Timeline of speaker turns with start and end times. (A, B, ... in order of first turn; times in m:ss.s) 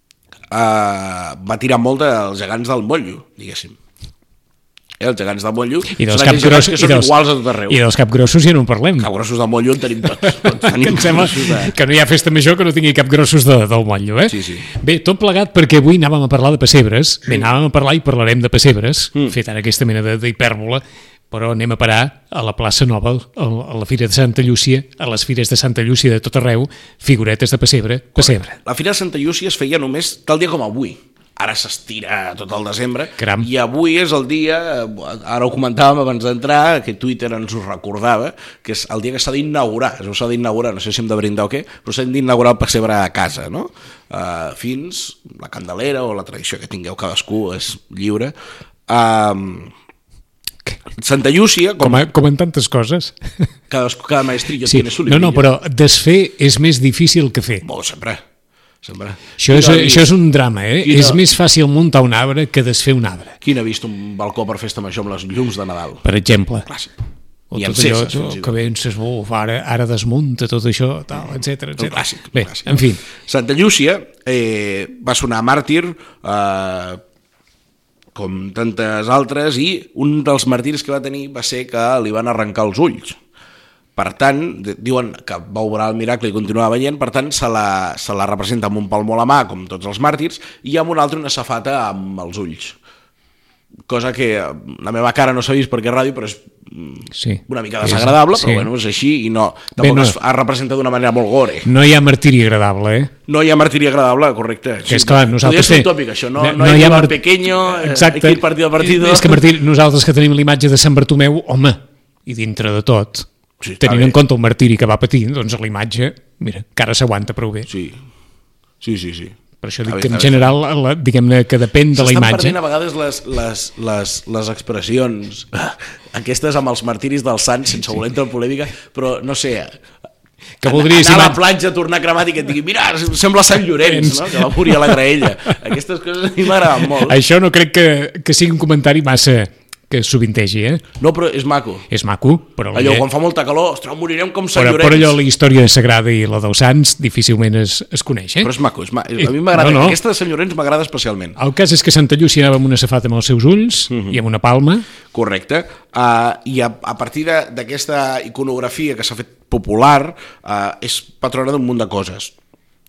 0:00.5-0:03.8 A
0:05.0-0:07.8 A
0:05.9-0:09.1 B
0:09.0-0:11.7 A
0:10.2-0:28.6 B
0:14.3-0:14.6 A
0:28.2-0:48.3 A
0:33.2-0:33.5 B
0:48.9-0:49.7 A
0:51.0-0:52.0 A
0:51.8-0:53.1 B
0:53.7-0:55.4 A
0:54.6-0:57.6 B
0:57.6-0:58.2 A
0:58.8-1:00.1 A
0:59.4-1:03.4 B
1:00.8-1:01.2 A
1:03.4-1:06.0 A
1:06.0-1:06.7 B
1:06.6-1:06.9 A
1:07.5-1:13.0 B
1:07.5-1:08.5 A
1:11.8-1:17.0 A
1:18.1-1:23.2 A
1:24.0-1:32.8 A
1:33.9-1:41.7 A
1:37.1-1:38.7 B
1:39.8-1:40.2 B
1:41.6-1:43.1 B
1:43.3-1:49.4 A
1:44.9-1:53.3 B
1:53.6-1:54.2 A
1:53.8-1:57.7 B
1:57.7-1:58.0 A
1:58.8-2:00.5 A
1:59.6-2:02.6 B
2:01.9-2:09.8 A
2:10.6-2:11.4 B
2:10.6-2:17.2 A
2:13.8-2:15.0 B
2:16.9-2:20.8 B
2:21.0-2:21.9 A
2:21.9-2:23.0 B
2:22.7-2:25.2 A
2:24.5-2:28.5 B
2:28.4-2:31.4 A
2:29.2-2:30.0 B
2:31.4-2:34.9 B
2:33.9-2:34.2 A
2:35.1-2:42.3 A